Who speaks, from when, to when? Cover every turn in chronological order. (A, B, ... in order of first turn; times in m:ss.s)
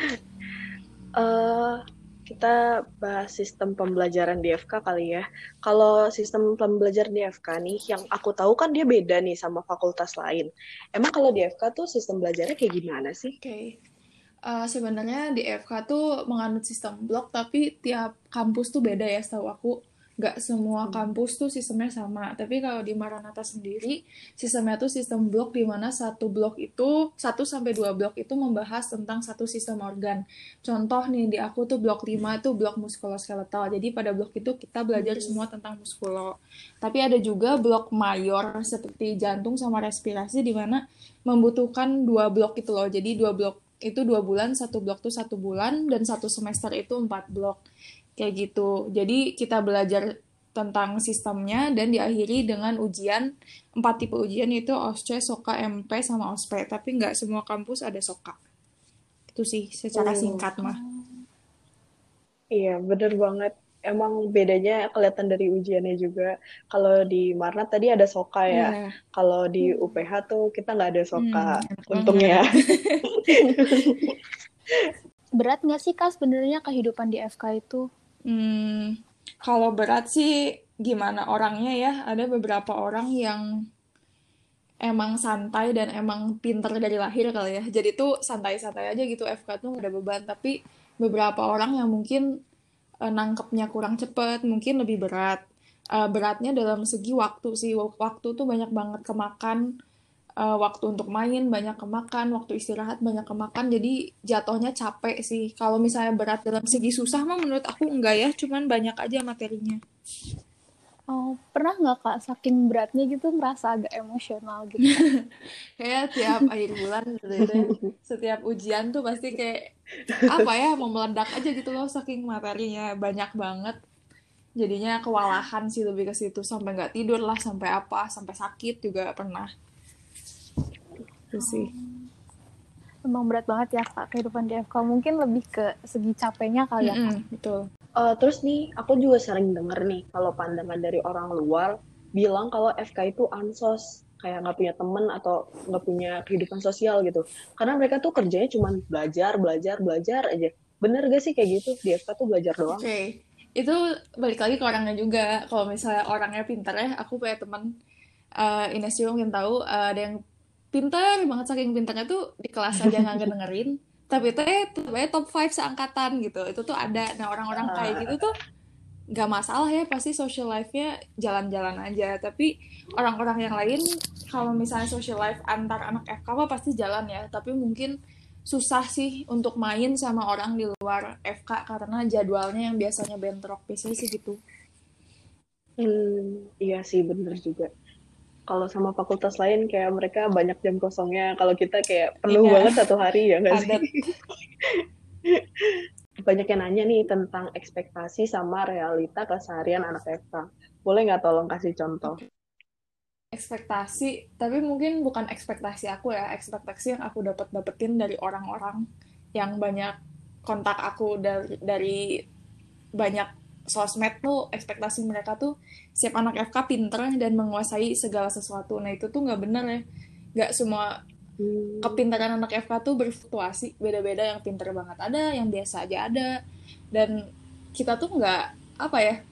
0:01.2-0:13.3 A
0:13.4-0:13.7 B
0:14.5-0:36.3 B
0:20.8-0:21.1 A
0:35.0-0:35.4 A
0:36.8-0:47.6 B
0:48.2-0:50.0 B
0:50.6-0:53.3 B
0:53.8-0:58.4 B
0:59.3-1:00.8 B
1:00.0-1:00.5 A
1:00.6-1:01.2 C
1:02.5-1:12.5 A
1:08.5-1:08.9 B
1:09.6-1:10.0 C
1:11.2-1:13.0 B
1:13.1-1:14.1 A
1:15.4-1:17.9 C
1:18.3-1:18.9 B
1:19.4-1:20.3 B
1:20.8-1:23.4 B
1:24.8-1:32.2 B
1:33.1-1:35.4 B
1:36.0-1:39.6 B
1:40.4-1:49.8 B
1:51.1-1:55.0 C
1:54.8-1:55.2 B
1:55.8-1:59.6 B
1:57.4-1:57.9 A
2:00.1-2:00.4 A
2:00.3-2:03.8 B
2:04.6-2:09.5 B
2:11.3-2:11.7 B
2:11.4-2:12.1 C
2:13.0-2:17.0 C
2:16.8-2:17.6 B
2:18.0-2:32.8 A
2:32.7-2:37.6 B
2:38.4-2:40.2 B
2:40.7-2:48.3 B
2:42.8-2:43.3 A
2:47.6-2:48.2 A
2:49.1-2:57.9 B
2:58.5-3:04.4 B
3:05.8-3:07.7 A
3:08.5-3:13.8 A
3:12.3-3:12.8 B
3:13.5-3:14.1 B
3:16.2-3:22.2 A
3:23.3-3:28.8 B
3:29.4-3:29.9 B
3:30.4-3:32.0 B
3:33.0-3:39.8 B
3:40.4-3:40.9 B
3:41.4-3:42.0 A
3:41.8-3:46.3 B
3:47.8-3:49.2 B